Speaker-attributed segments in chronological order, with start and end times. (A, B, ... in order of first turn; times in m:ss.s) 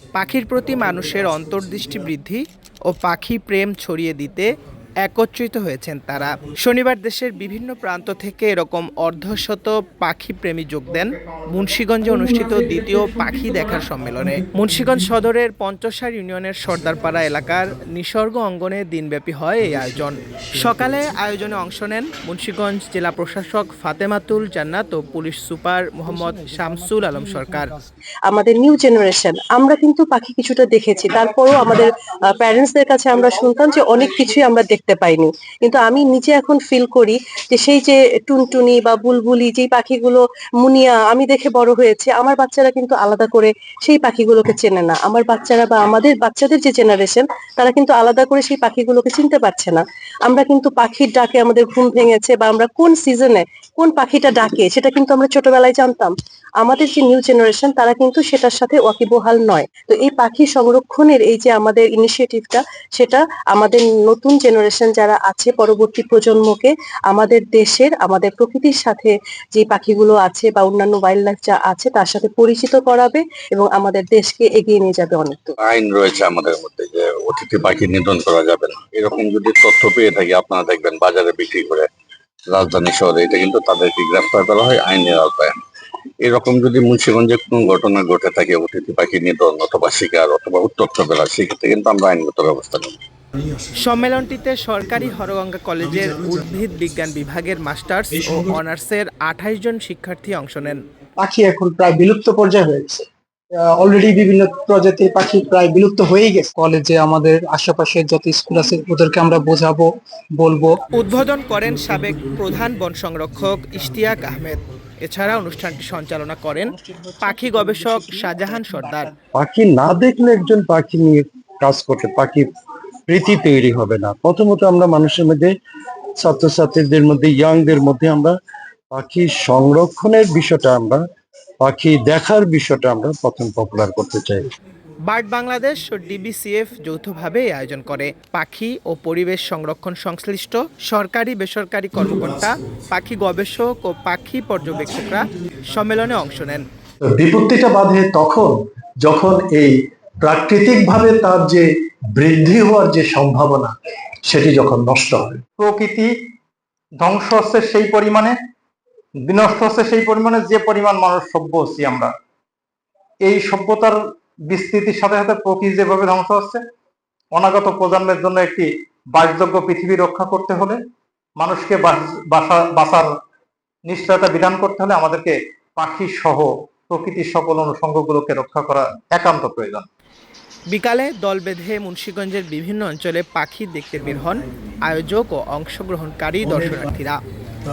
0:00.1-0:04.5 A
0:05.0-0:27.7 A
0:28.3-1:15.6 B
1:15.6-1:21.9 C
1:22.5-1:25.6 C
1:26.2-1:33.0 C
1:33.8-1:40.8 A
1:41.2-1:50.8 D
1:50.9-1:59.1 A
1:56.7-1:59.1 D
1:59.4-2:02.5 E
2:03.1-2:05.5 E
2:06.2-2:08.4 E
2:08.9-2:11.0 E
2:11.6-2:14.5 E
2:15.1-2:26.7 A
2:27.1-2:35.4 F
2:35.6-2:36.1 G
2:37.0-2:38.3 G
2:39.3-2:42.1 G
2:43.2-2:43.9 G
2:44.5-2:46.6 G
2:47.4-2:50.8 G
2:51.4-2:53.1 G
2:53.9-2:59.9 G
3:00.7-3:07.2 A